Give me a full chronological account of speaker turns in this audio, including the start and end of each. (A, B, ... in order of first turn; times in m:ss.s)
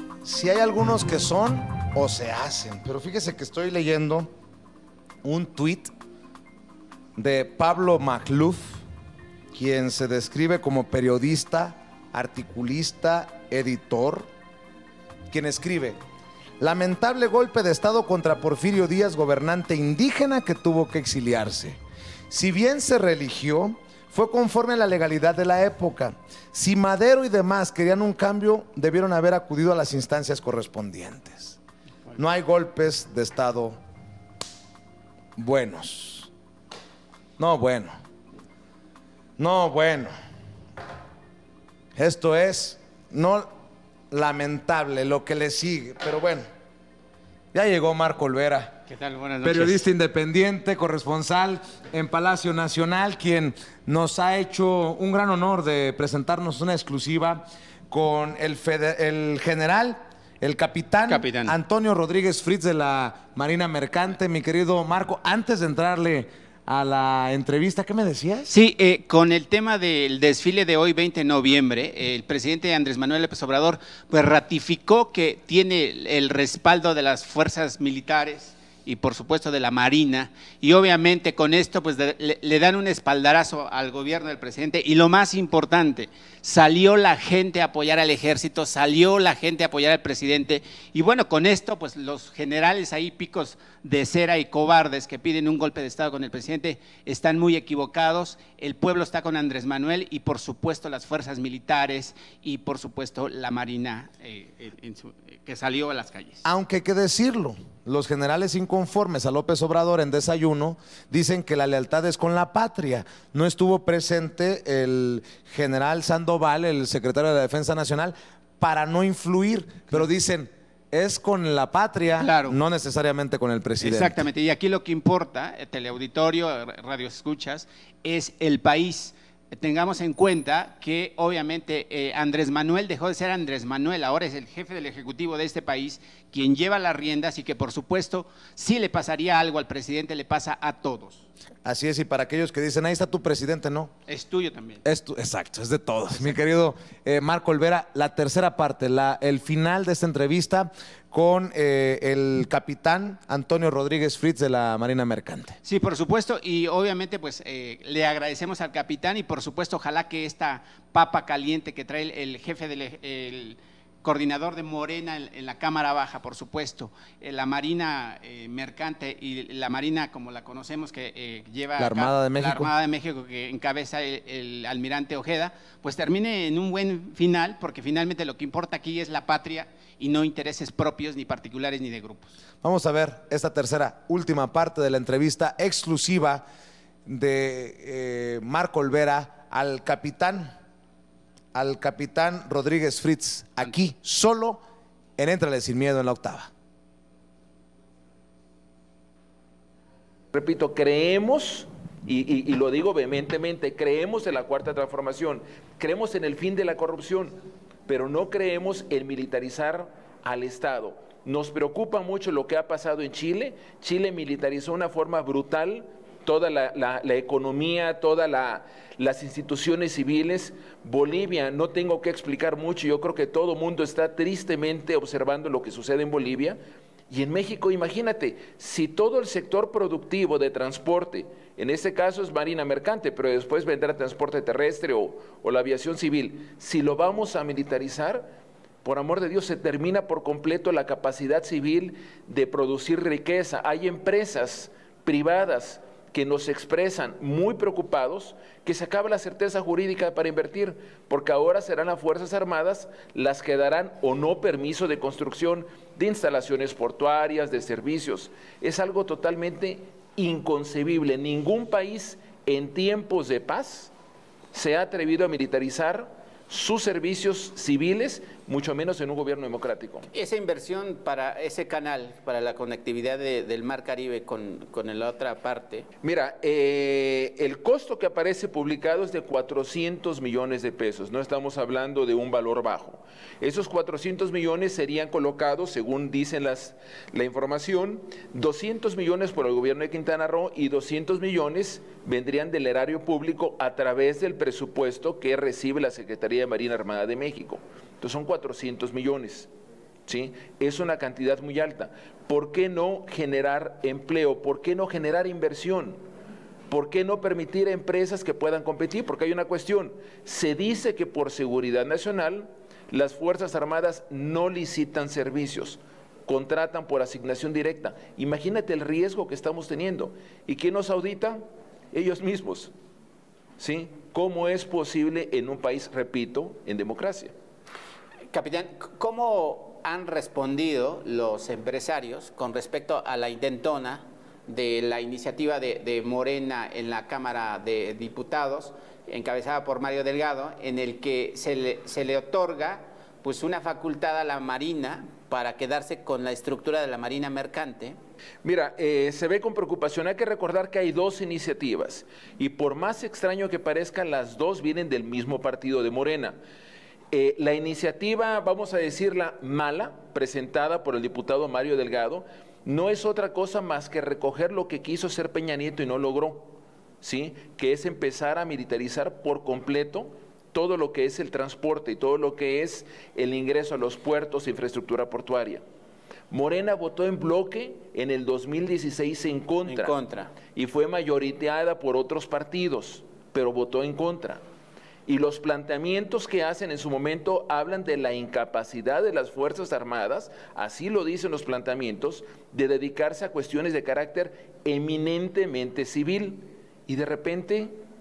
0:00.2-0:04.3 A
0:05.2-0:05.9 A
0:07.2-0:08.8 A
0:09.5-0:14.3 A
0:15.3-0:16.0 A
0:16.6-0:21.8 A
0:22.3-0:31.6 A
0:32.2-0:33.8 A
0:35.4-0:36.3 A
0:37.4-0:37.9 A
0:39.4-0:40.1 A
0:42.0-0:43.5 A
0:44.1-0:46.4 A
0:47.5-0:48.8 A
0:48.9-0:49.8 B
0:49.4-1:08.5 A
1:01.1-1:01.6 B
1:08.4-1:46.4 B
1:46.4-2:04.2 A
2:02.2-2:02.6 B
2:03.8-2:21.2 B
2:21.6-2:23.9 A
2:24.1-2:24.8 B
2:24.8-2:35.6 A
2:35.6-3:02.4 B
2:51.8-2:52.7 A
3:02.6-3:06.4 A
3:07.0-3:10.5 A
3:11.5-3:14.6 A
3:15.2-3:16.5 A
3:20.3-3:27.4 C
3:27.9-3:46.6 C
3:47.1-3:58.3 C
3:58.8-4:23.9 C
4:24.5-4:30.0 C
4:30.1-4:35.8 B
4:36.0-4:59.5 C
5:00.1-5:06.0 C
5:06.7-5:21.4 C
5:21.9-5:22.7 C
5:23.6-5:27.3 C
5:28.3-5:48.0 B
5:48.4-5:56.4 C
5:57.1-6:15.6 C
6:16.3-6:20.0 C
6:19.6-6:20.3 B
6:20.5-6:24.4 C
6:25.1-6:37.7 C